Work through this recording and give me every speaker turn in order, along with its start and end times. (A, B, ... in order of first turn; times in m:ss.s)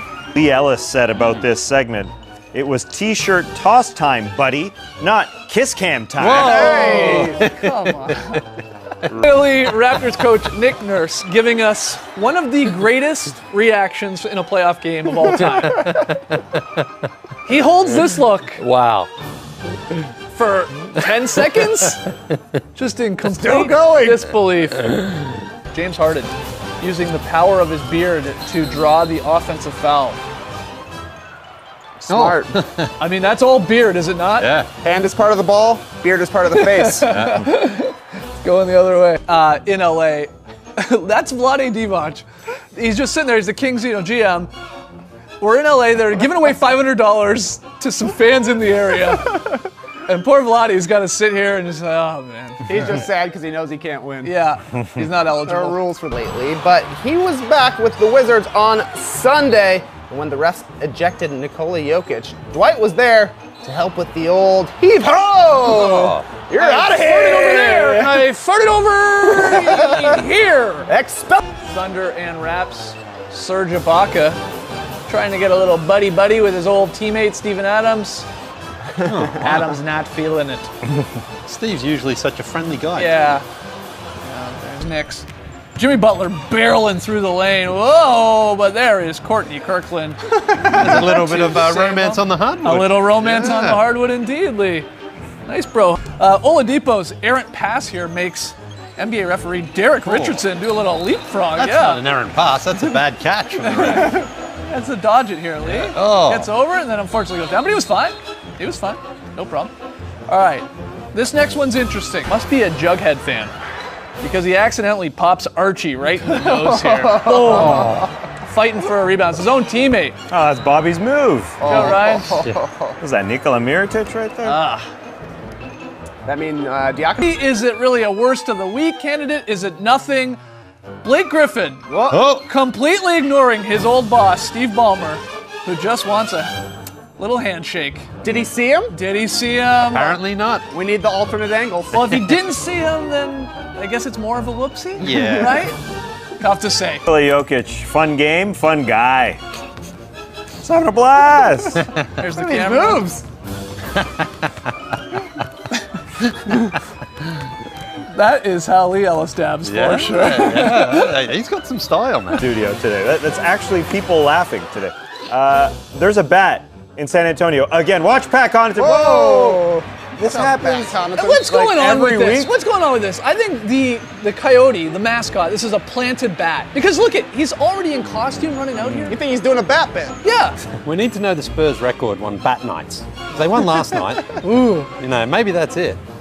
0:00.3-0:07.0 A
0:06.2-0:07.8 B
0:06.3-0:07.4 C
0:06.7-0:08.4 D
0:09.1-0:16.1 D
0:15.3-0:16.1 B
0:17.4-0:18.6 D
0:18.6-0:19.1 B
0:20.3-0:22.0 D
0:22.8-0:25.1 D
0:23.2-0:24.3 C
0:25.7-0:30.2 D
0:32.0-0:32.6 C
0:32.1-0:32.9 B
0:33.0-0:34.5 D
0:34.4-0:34.7 B
0:34.8-0:37.2 C
0:36.5-0:44.5 D
0:37.1-0:37.5 B
0:45.4-0:53.0 D
0:52.7-0:54.3 C
0:54.2-0:55.8 D
0:55.5-1:08.3 C
1:05.6-1:06.3 B
1:06.6-1:10.9 D
1:09.2-1:10.2 C
1:10.9-1:11.4 C
1:11.6-1:14.4 D
1:15.1-1:18.3 D
1:19.0-1:19.7 C
1:19.0-1:19.6 B
1:19.4-1:20.7 D
1:21.5-1:23.4 B
1:22.9-1:23.4 D
1:24.2-1:34.9 D
1:30.5-1:31.0 C
1:30.6-1:33.8 B
1:35.5-1:42.1 D
1:40.0-1:40.4 B
1:41.6-1:44.3 B
1:43.6-1:49.7 D
1:45.6-1:46.5 B
1:50.3-1:53.5 D
1:54.2-2:00.2 D
1:56.4-1:58.1 C
1:57.5-1:58.1 B
2:00.3-2:02.0 A
2:01.6-2:03.0 C
2:01.6-2:02.4 D
2:03.0-2:04.6 A
2:04.4-2:04.9 D
2:06.2-2:07.3 C
2:07.2-2:10.4 D
2:11.0-2:16.6 D
2:11.9-2:12.2 C
2:12.1-2:12.5 B
2:17.2-2:18.1 D
2:18.2-2:19.0 C
2:18.9-2:20.2 D
2:19.8-2:20.7 B
2:20.7-2:22.4 C
2:21.9-2:25.8 D
2:25.0-2:25.7 B
2:26.4-2:27.0 D
2:27.1-2:29.4 A
2:30.6-2:31.9 A
2:32.2-2:33.2 D
2:32.4-2:33.2 C
2:38.1-2:41.2 D
2:39.6-2:42.5 B
2:42.4-2:49.7 A
2:48.8-2:51.7 C
2:50.2-2:51.0 A
2:51.2-2:59.2 D
2:51.6-2:52.5 A
2:58.8-2:59.2 B
2:59.1-3:00.2 C
3:00.2-3:00.6 D
3:00.8-3:06.0 B
3:04.4-3:04.9 D